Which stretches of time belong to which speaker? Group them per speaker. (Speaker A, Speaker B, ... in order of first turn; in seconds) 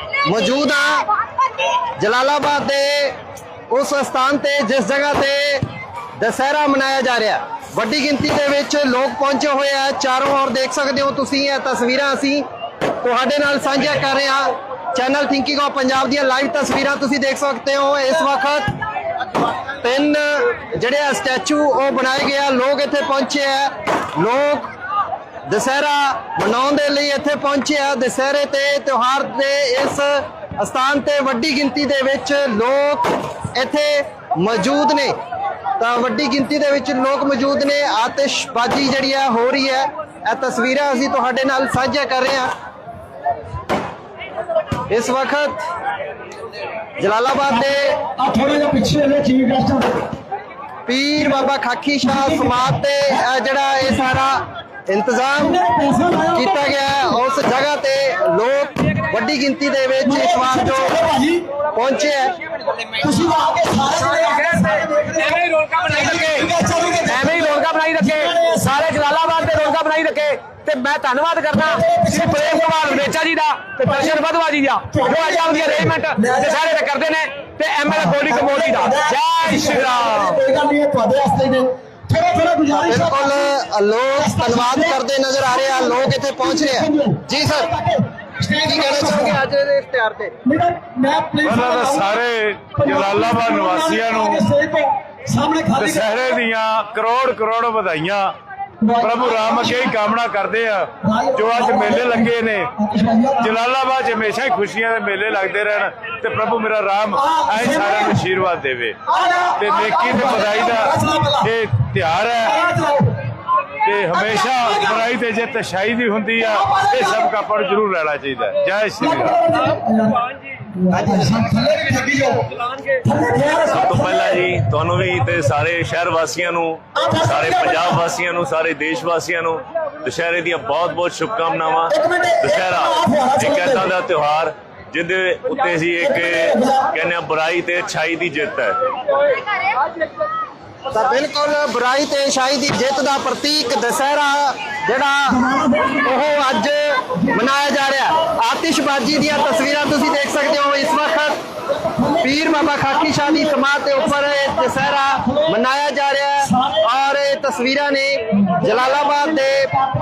Speaker A: 0.2-1.1, 2.0-3.2, 3.7-5.6, 6.2-12.4, 13.0-18.7, 19.8-24.7, 25.5-35.2, 35.8-42.5, 44.9-45.6, 47.0-48.0, 50.9-55.6, 56.4-60.9, 61.8-62.3, 82.7-87.7, 88.6-90.3, 140.9-145.4, 146.0-151.4, 152.2-159.7
Speaker B: 48.2-50.0, 55.4-56.6, 60.0-61.5, 63.0-68.7, 71.6-73.1, 73.8-74.2, 74.9-76.8, 77.9-83.5, 84.2-85.0, 85.5-89.4, 90.5-92.2, 92.8-96.1, 98.8-99.9, 101.1-103.5, 107.2-108.2, 109.1-111.5, 112.4-113.1, 114.1-115.0, 116.5-117.2, 119.0-120.2, 120.8-122.4, 123.0-124.5, 127.0-128.0, 131.9-133.9, 136.0-136.9, 145.4-146.0, 151.8-152.2
Speaker C: 64.0-66.5, 67.0-80.4
Speaker D: 91.4-94.4, 95.8-98.3, 99.0-102.7, 103.4-109.0, 109.6-112.6, 113.8-119.4
Speaker E: 123.7-138.8